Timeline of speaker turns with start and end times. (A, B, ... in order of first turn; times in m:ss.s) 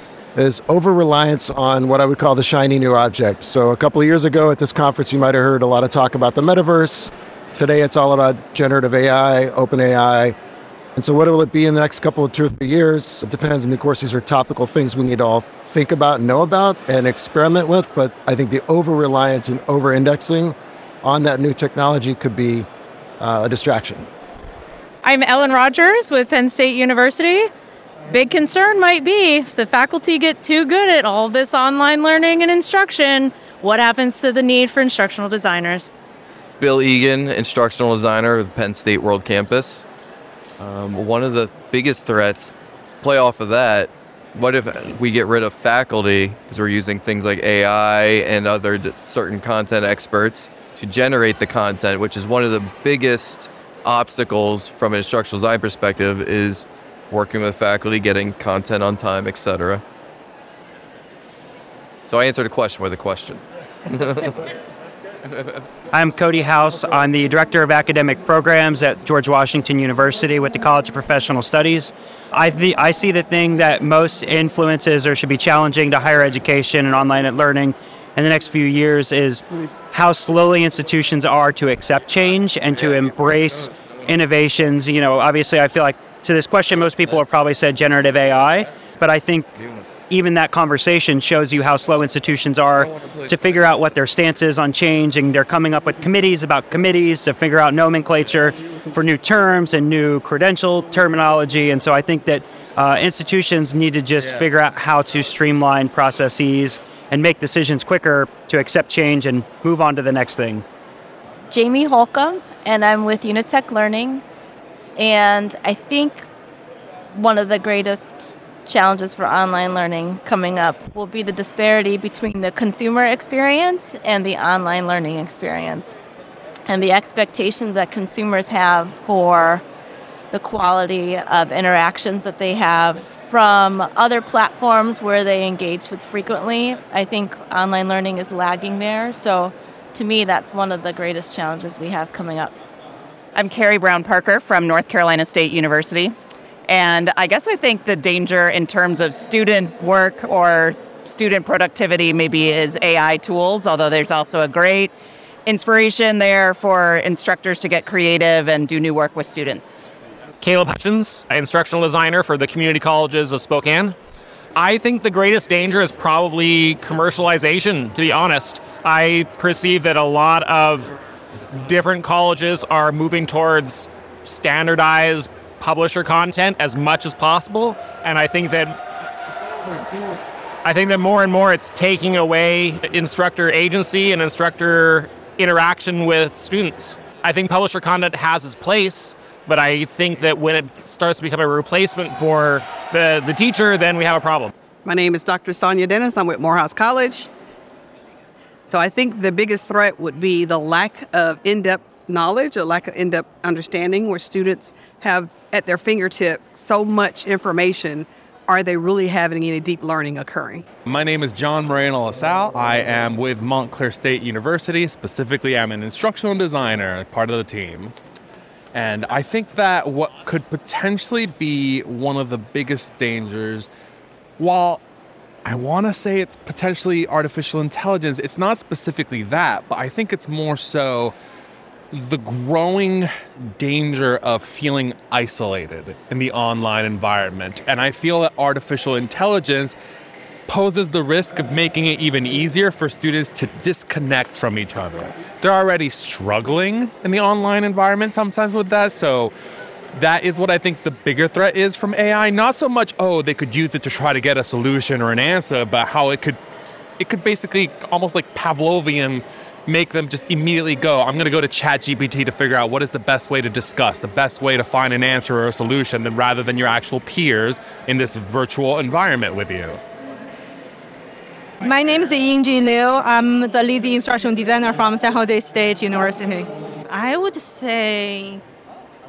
0:00.4-0:10.4 A
0:11.0-0:22.7 A
0:23.2-0:24.1 A
0:25.0-0:27.5 B
0:28.1-0:35.9 B
0:36.6-0:39.9 C
0:40.6-0:59.8 C
1:02.1-1:04.4 C
1:05.9-1:29.5 D
1:29.6-1:29.9 C
1:30.1-1:50.6 D
1:32.8-1:33.3 C
1:51.5-1:54.2 E
1:55.0-1:56.3 E
1:57.1-2:06.0 E
2:06.7-2:09.6 E
2:10.3-2:22.6 E
2:23.4-2:26.2 F
2:26.7-2:34.9 F
2:35.5-2:39.9 F
2:40.4-2:44.0 G
2:44.6-2:50.9 G
2:51.5-2:58.8 G
3:00.6-3:14.5 G
3:14.8-3:17.3 H
3:18.7-3:30.7 H
3:30.9-3:37.9 I
3:38.7-3:43.7 I
3:44.4-3:44.8 I
3:45.4-3:51.2 I
3:51.9-3:59.8 I
4:00.5-4:09.3 I
4:09.9-4:29.8 I
4:31.6-4:38.4 J